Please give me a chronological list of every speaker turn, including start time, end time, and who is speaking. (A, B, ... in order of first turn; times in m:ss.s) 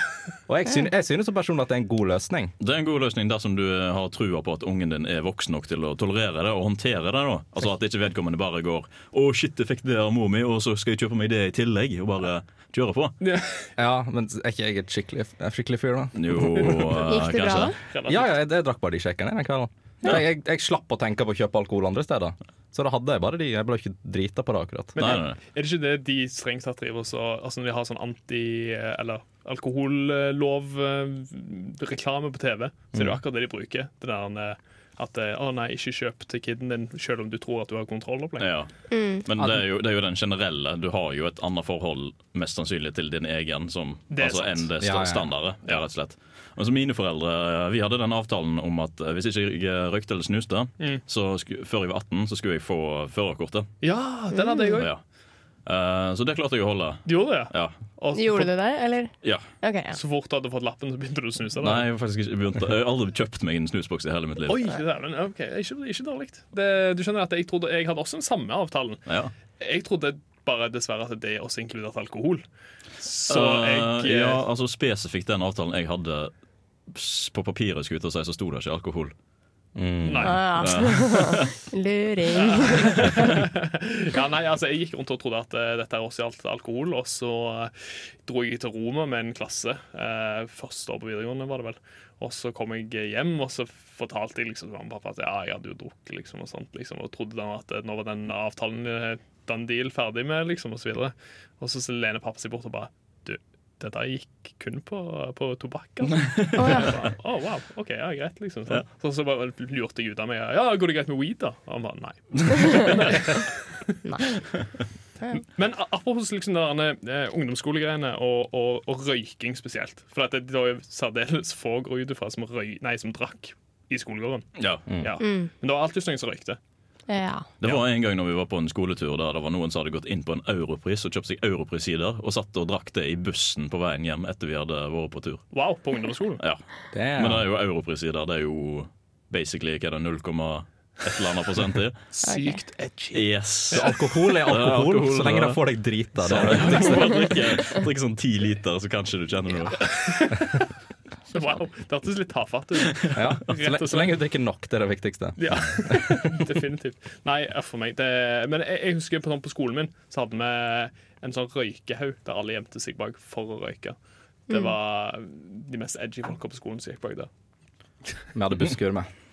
0:00.5-0:02.5 A
0:02.6-0:13.2 B
0:13.2-0:13.7 C
0:13.8-0:16.9 A
0:16.2-0:17.8 B
0:16.6-0:16.8 C
0:17.0-0:17.8 D
0:17.8-0:18.4 C
0:18.1-0:25.0 A
0:25.0-0:38.5 C
0:25.0-0:25.4 B
0:32.9-0:33.2 A
0:38.4-0:53.7 B
0:38.9-0:39.3 D
0:44.1-0:44.7 C
0:44.8-0:45.3 A
0:53.8-0:54.9 C
0:54.4-0:54.7 D
0:55.7-0:57.8 B
0:57.1-0:58.5 C
0:58.1-1:00.0 D
0:59.9-1:01.9 C
1:01.6-1:04.6 B
1:04.4-1:09.1 C
1:09.1-1:09.3 B
1:09.6-1:12.4 C
1:13.0-1:14.4 C
1:13.3-1:16.3 B
1:16.9-1:19.1 B
1:19.8-1:20.4 A
1:20.0-1:20.6 C
1:20.2-1:23.0 D
1:20.6-1:21.5 B
1:22.4-1:53.8 C
1:46.5-1:46.9 D
1:55.4-2:06.6 C
2:04.6-2:04.9 B
2:04.9-2:05.2 A
2:05.2-2:05.5 D
2:07.1-2:07.5 D
2:07.6-2:15.5 B
2:15.5-2:16.4 C
2:16.9-2:17.5 A
2:17.2-2:22.0 B
2:22.1-2:23.8 C
2:22.2-2:22.6 D
2:23.1-2:23.9 B
2:23.7-2:27.3 A
2:24.4-2:25.6 B
2:26.2-2:30.2 B
2:29.9-2:30.5 C
2:31.3-2:34.1 C
2:33.1-2:36.3 A
2:35.4-2:44.0 C
2:44.5-2:47.3 C
2:48.3-2:49.1 A